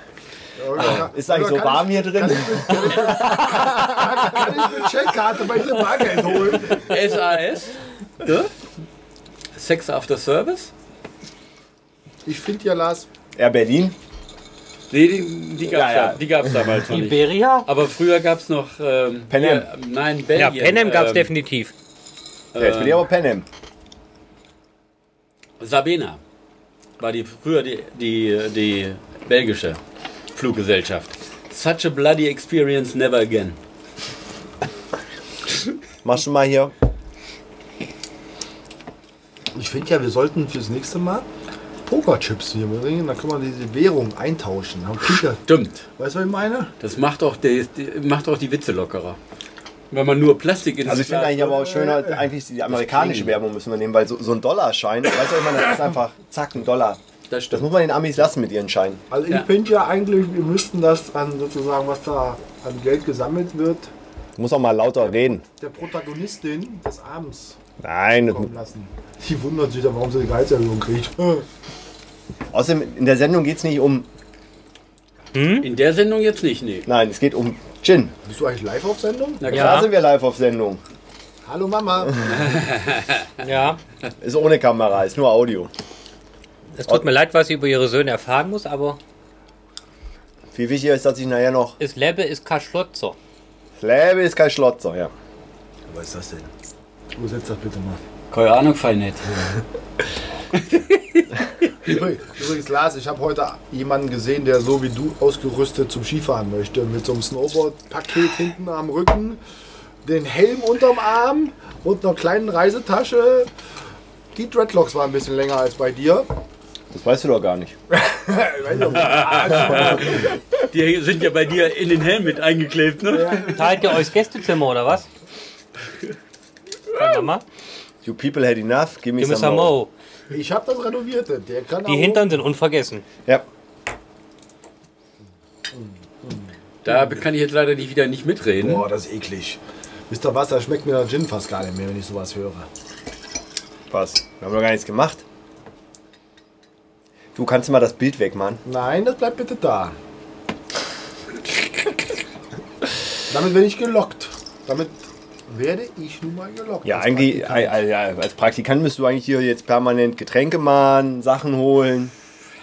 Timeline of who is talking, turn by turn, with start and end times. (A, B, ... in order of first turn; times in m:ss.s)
0:00.6-0:06.9 A
0:00.8-0:04.1 B
0:06.7-0:08.5 C
0:09.6-0:10.7 C
0:12.2-0:13.1 A
0:13.4-0:14.0 B
0:14.9-0:21.3 C
0:15.6-0:16.2 B
0:16.9-0:17.7 D
0:19.3-0:19.7 B
0:20.4-0:21.7 D
0:22.5-0:23.0 C
0:22.6-0:23.5 B
0:25.6-0:26.2 C
0:27.0-0:29.8 C
0:30.3-0:33.6 C
0:36.0-0:36.7 B
0:39.5-0:41.3 A
0:41.9-0:45.4 A
0:45.5-0:45.9 C
0:46.0-0:46.7 A
0:46.8-0:49.2 C
0:49.9-0:51.5 C
0:50.8-0:57.0 B
0:51.3-0:52.2 A
0:52.7-0:53.4 C
0:57.3-0:57.7 C
0:57.5-0:59.0 B
0:59.1-1:03.9 A
1:04.4-1:05.4 B
1:05.6-1:07.6 A
1:07.8-1:08.5 B
1:08.3-1:11.5 A
1:12.5-1:14.1 B
1:15.3-1:15.7 D
1:15.6-1:16.9 C
1:16.9-1:18.1 B
1:18.2-1:19.5 A
1:19.4-1:19.9 C
1:19.5-1:20.8 B
1:19.5-1:19.9 D
1:21.4-1:22.4 A
1:22.3-1:23.4 C
1:23.4-1:23.8 D
1:24.2-1:25.7 B
1:26.8-1:29.0 D
1:30.5-1:31.8 B
1:31.8-1:33.2 D
1:33.8-1:35.1 B
1:35.9-1:36.5 A
1:37.2-1:38.0 A
1:38.3-1:39.6 C
1:40.6-1:41.3 C
1:41.8-1:49.4 A
1:50.0-1:53.5 A
1:54.3-1:56.3 A
1:56.9-1:57.8 B
1:57.9-2:00.3 A
1:58.9-2:03.7 C
2:03.1-2:04.0 A
2:03.5-2:05.1 D
2:07.0-2:07.4 D
2:08.0-2:09.8 B
2:09.2-2:09.9 D
2:10.3-2:12.4 A
2:11.9-2:13.0 D
2:15.7-2:17.2 A
2:16.8-2:18.9 C
2:18.6-2:22.7 A
2:23.9-2:25.2 B
2:27.4-2:28.6 B
2:28.6-2:30.0 A
2:33.3-2:35.0 A
2:35.5-2:37.8 A
2:36.8-2:42.1 B